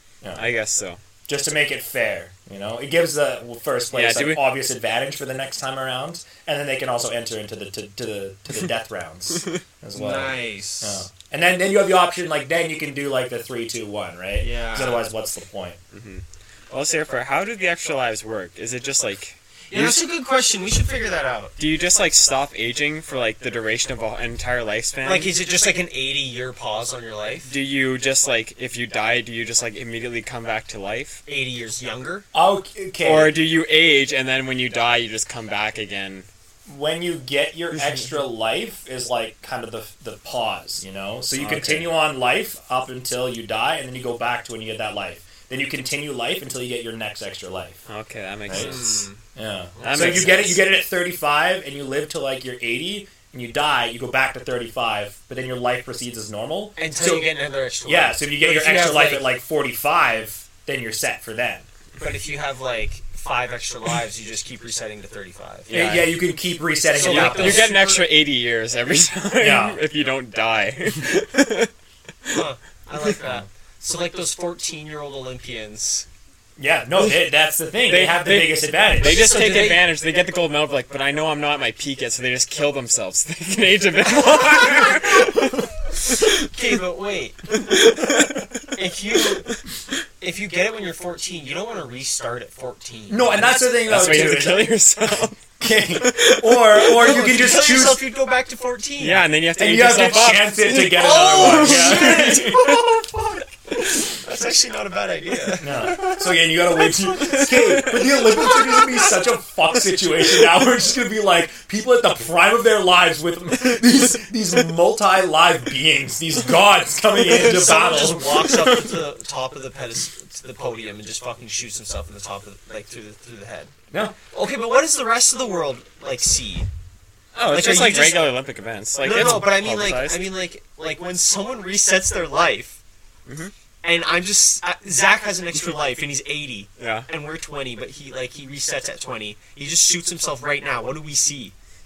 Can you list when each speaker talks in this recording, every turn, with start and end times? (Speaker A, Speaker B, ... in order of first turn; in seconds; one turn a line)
Speaker A: 0.3-1.0
Speaker B: 1.3-15.8
Speaker A: 3.9-4.4
Speaker C: 9.9-11.0
Speaker C: 14.4-15.1
Speaker A: 15.9-20.0
Speaker C: 19.7-21.6
Speaker A: 21.6-25.3
Speaker C: 25.0-27.5
Speaker A: 27.4-31.2
Speaker C: 31.3-32.3
Speaker B: 32.3-33.3
Speaker A: 33.0-36.3
Speaker B: 36.7-47.8
Speaker A: 37.8-38.1
Speaker A: 41.4-41.9
Speaker A: 47.9-49.1
Speaker B: 48.5-48.8
Speaker C: 48.5-49.2
Speaker B: 49.3-57.3
Speaker C: 49.8-50.3
Speaker A: 49.8-50.6
Speaker C: 56.8-59.3
Speaker B: 57.9-61.7
Speaker C: 62.0-65.7
Speaker A: 65.7-66.2
Speaker B: 65.7-67.7
Speaker C: 66.9-68.1
Speaker A: 67.0-71.7
Speaker B: 69.4-69.8
Speaker C: 72.3-76.1
Speaker B: 76.6-79.3
Speaker A: 77.9-86.5
Speaker C: 79.0-79.9
Speaker C: 84.5-85.3
Speaker C: 86.1-87.8
Speaker A: 87.5-88.7
Speaker C: 88.7-89.6
Speaker C: 90.2-93.6
Speaker B: 93.1-94.8
Speaker A: 93.8-97.3
Speaker B: 95.6-98.0
Speaker C: 97.0-99.3
Speaker A: 99.0-102.5
Speaker B: 99.6-102.8
Speaker C: 100.7-109.1
Speaker B: 105.6-119.0
Speaker A: 107.1-108.0
Speaker C: 117.3-123.7
Speaker B: 123.9-124.2
Speaker C: 124.3-126.7
Speaker A: 127.4-130.3
Speaker C: 127.5-128.4
Speaker C: 129.0-132.8
Speaker A: 133.3-133.5
Speaker C: 133.8-141.5
Speaker A: 136.8-137.1